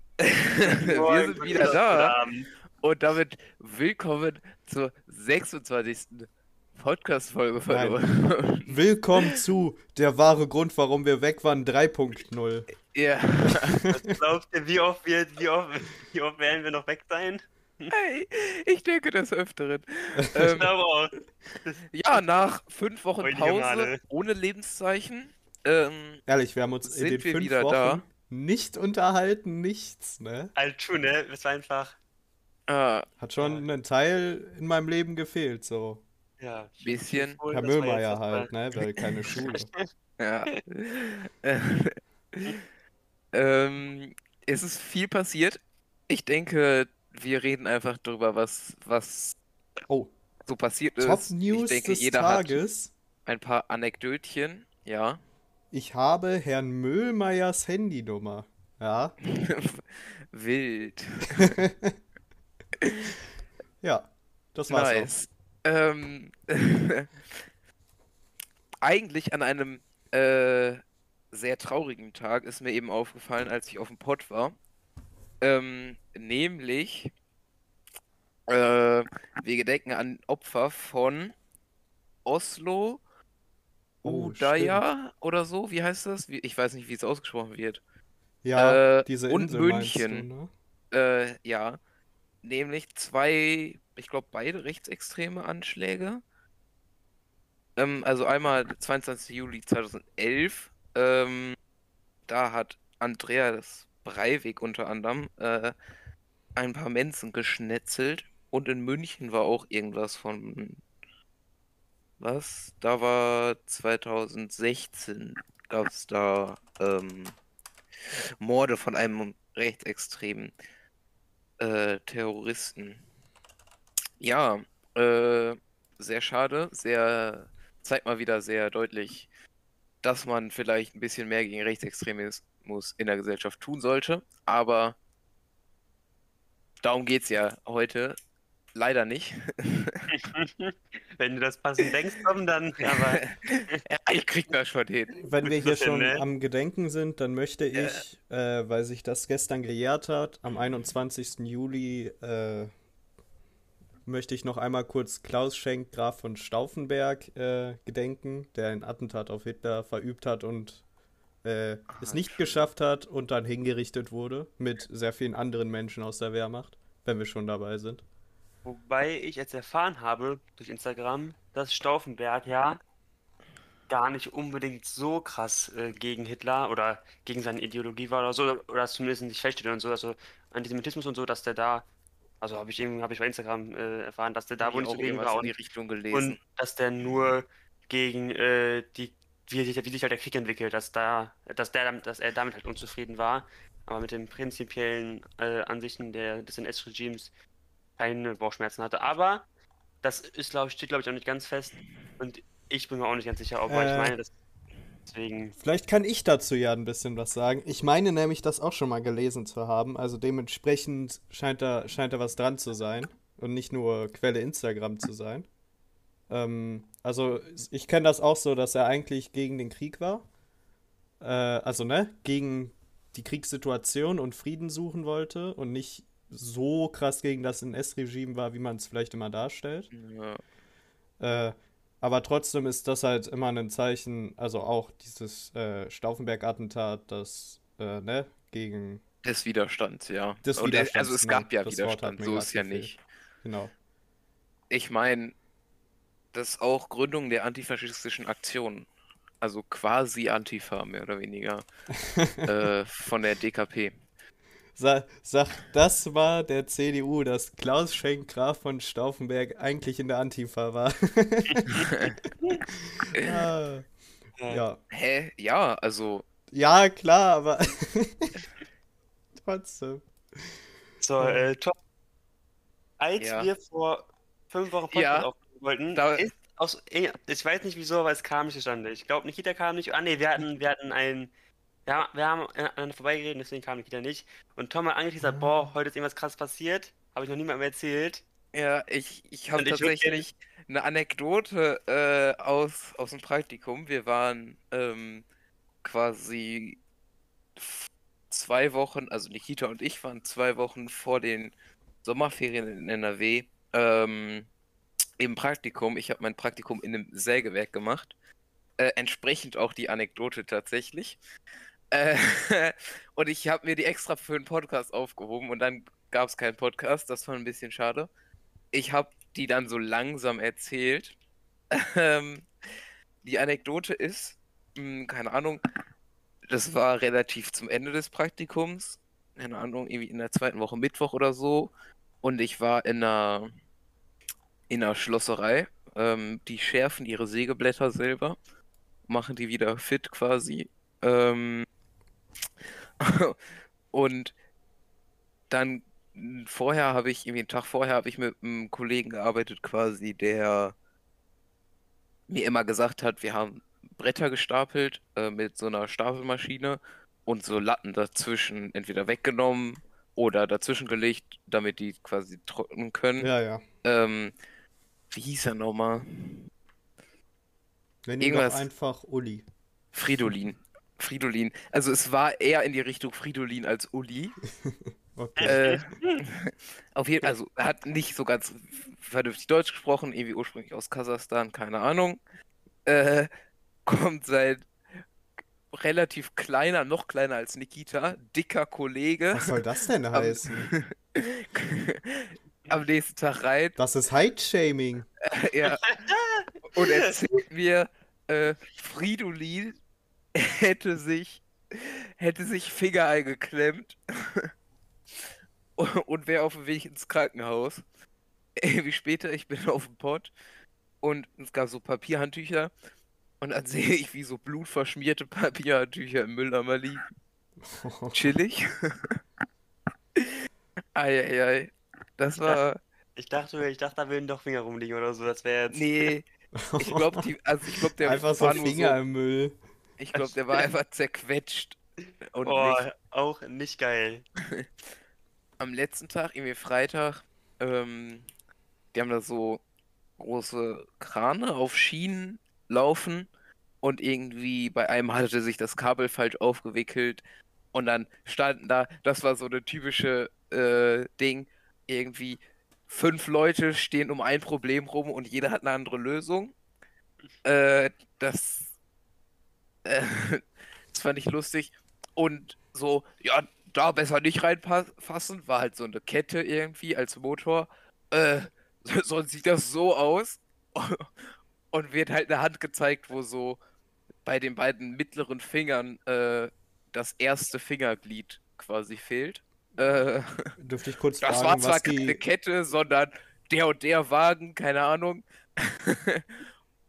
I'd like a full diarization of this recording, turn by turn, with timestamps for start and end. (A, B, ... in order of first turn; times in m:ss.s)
0:00.2-0:02.2 A
0:00.7-0:02.5 B
0:02.8-0:09.4 A
0:07.7-0:12.7 C
0:12.9-0:13.8 A
0:13.4-0:14.1 C
0:13.9-0:17.9 B
0:17.9-0:20.7 A
0:20.2-0:20.7 C
0:20.6-0:21.8 B
0:21.9-0:26.2 A
0:23.2-0:24.0 B
0:26.3-0:30.5 C
0:26.8-0:28.0 A
0:30.6-0:32.0 B
0:32.7-0:33.1 A
0:33.2-0:36.0 C
0:33.4-0:33.6 B
0:36.4-0:39.8 B
0:36.8-0:37.4 A
0:37.5-0:39.7 C
0:40.2-0:42.6 A
0:43.3-0:49.4 A
0:50.4-0:52.6 A
0:51.0-0:52.9 C
0:53.2-0:55.2 A
0:55.7-0:59.1 C
0:59.2-1:01.6 A
1:01.4-1:01.9 C
1:02.8-1:03.1 A
1:03.8-1:05.1 C
1:04.7-1:07.4 A
1:08.8-1:10.8 A
1:11.3-1:14.6 A
1:15.4-1:17.1 A
1:18.5-1:21.3 A
1:22.2-1:23.0 A
1:24.0-1:24.8 C
1:24.0-1:27.8 A
1:28.4-1:30.5 C
1:28.5-1:30.3 A
1:30.9-1:31.8 A
1:32.4-1:36.2 A
1:37.8-1:41.6 A
1:42.3-1:45.7 A
1:46.6-1:50.8 A
1:52.2-1:57.4 A
1:58.4-2:00.5 A
2:01.6-2:03.0 A
2:04.2-2:09.3 A
2:10.0-2:15.0 A
2:16.8-2:18.2 A
2:18.7-2:20.1 A
2:20.1-2:23.8 B
2:22.9-2:25.2 A
2:25.2-2:32.7 C
2:25.5-2:26.2 B
2:27.7-2:28.0 A
2:34.0-2:40.8 C
2:41.4-2:48.0 C
2:41.9-2:42.7 A
2:48.6-2:52.8 B
2:53.9-3:01.8 B
3:02.4-3:17.3 B
3:04.6-3:06.4 A
3:18.0-3:19.4 B
3:20.0-3:24.3 B
3:23.7-3:24.1 C
3:25.1-3:25.5 B
3:25.6-3:35.5 C
3:36.3-3:40.2 C
3:41.2-3:49.9 C
3:49.9-3:50.4 A
3:51.2-3:59.0 C
3:59.2-4:03.0 A
4:00.4-4:03.7 C
4:04.7-4:05.3 A
4:06.3-4:08.9 A
4:09.4-4:11.6 A
4:12.0-4:12.5 C
4:12.4-4:13.9 A
4:14.8-4:21.8 C
4:21.7-4:22.2 A
4:23.1-4:23.9 C
4:24.5-4:24.8 C
4:24.9-4:26.2 A
4:26.5-4:28.4 C
4:29.3-4:30.5 C
4:31.0-4:31.7 B
4:31.2-4:31.5 C
4:33.0-4:41.3 B
4:33.2-4:33.5 A
4:34.9-4:35.3 A
4:35.9-4:36.3 A
4:41.8-4:48.2 B
4:45.2-4:45.5 C
4:48.5-4:55.2 A
4:49.6-4:50.2 B
4:55.8-4:56.8 A
4:57.6-5:01.5 A
5:02.0-5:04.5 A
5:05.2-5:08.1 A
5:08.8-5:11.2 A
5:11.9-5:18.1 A
5:18.7-5:21.2 A
5:21.7-5:22.5 A
5:23.2-5:25.6 A
5:26.5-5:31.7 A
5:32.2-5:33.5 A
5:34.7-5:38.4 A
5:39.1-5:41.7 A
5:43.0-5:43.4 A
5:43.9-5:44.3 A
5:45.5-5:50.7 A
5:52.3-6:03.3 A
6:03.2-6:03.6 C
6:03.8-6:04.3 A
6:05.1-6:06.5 A
6:08.0-6:09.4 C
6:08.2-6:08.7 A
6:09.9-6:14.4 A
6:14.6-6:15.6 C
6:15.4-6:16.2 B
6:15.4-6:22.2 A
6:22.8-6:23.3 A
6:23.8-6:24.7 A
6:25.7-6:29.6 A
6:29.3-6:30.7 C
6:30.1-6:33.8 A
6:33.8-6:35.1 C
6:35.2-6:35.9 A
6:35.8-6:37.1 B
6:36.6-6:39.8 A
6:40.3-6:44.5 A
6:45.8-6:47.8 A
6:48.6-6:50.3 A
6:51.0-6:52.7 A
6:53.4-6:57.0 A
6:57.6-6:58.3 C
6:58.1-6:59.2 A
7:01.0-7:02.8 A
7:03.2-7:06.1 B
7:05.7-7:09.0 A
7:06.6-7:07.2 C
7:08.0-7:09.6 C
7:10.0-7:12.8 A
7:10.1-7:10.6 B
7:12.4-7:14.2 B
7:15.6-7:18.2 A
7:18.9-7:19.6 A
7:20.2-7:23.3 A
7:23.8-7:36.5 A
7:37.4-7:38.7 A
7:39.8-7:53.6 A
7:54.2-8:00.5 A
8:00.6-8:02.2 C
8:01.2-8:06.4 A